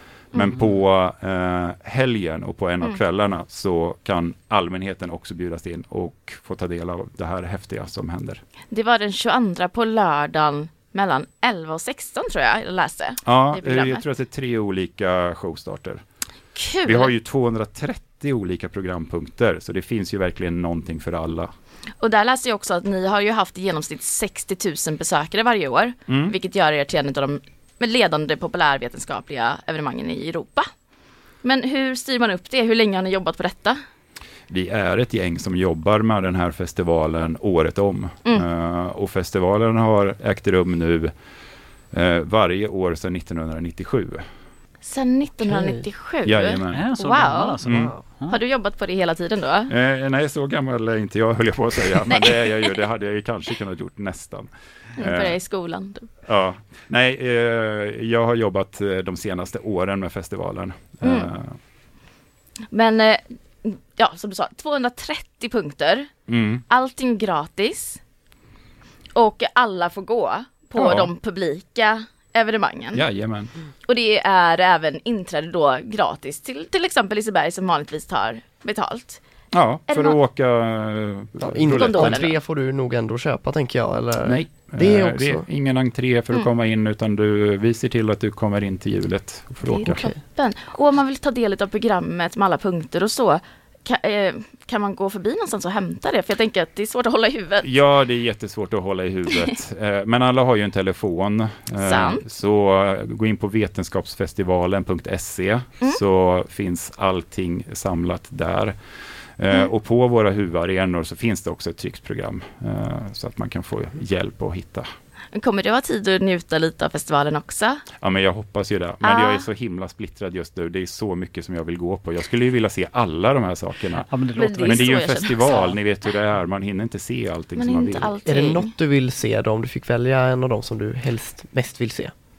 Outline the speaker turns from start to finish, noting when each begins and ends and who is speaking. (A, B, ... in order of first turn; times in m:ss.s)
0:00.3-0:08.4 A
0:08.7-0:14.0 B
0:13.2-0:16.0 A
0:16.5-0:17.1 B
0:16.8-0:21.5 A
0:22.0-0:30.6 B
0:26.1-0:26.3 A
0:31.4-0:33.8 B
0:34.5-0:41.1 A
0:41.9-0:44.2 A
0:44.8-0:47.6 B
0:45.4-0:45.8 C
0:46.2-0:46.8 A
0:46.7-0:48.4 D
0:47.6-0:47.9 A
0:48.3-0:49.7 B
0:49.7-0:55.4 A
0:55.0-0:56.1 B
0:56.2-1:01.5 A
1:01.0-1:01.3 B
1:02.7-1:06.1 B
1:06.3-1:06.6 A
1:06.7-1:08.0 B
1:09.1-1:13.1 B
1:10.8-1:11.1 A
1:12.9-1:13.5 A
1:13.8-1:19.2 B
1:19.5-1:22.2 A
1:19.9-1:20.2 B
1:21.4-1:25.4 C
1:21.7-1:22.3 B
1:24.2-1:30.1 A
1:29.8-1:37.7 B
1:37.6-1:48.7 A
1:41.8-1:42.2 B
1:49.4-1:54.9 A
1:55.3-1:57.8 B
1:58.0-2:04.1 A
1:59.0-1:59.5 B
2:04.0-2:05.0 D
2:04.3-2:05.8 B
2:04.6-2:08.2 A
2:07.6-2:08.7 B
2:08.2-2:12.1 C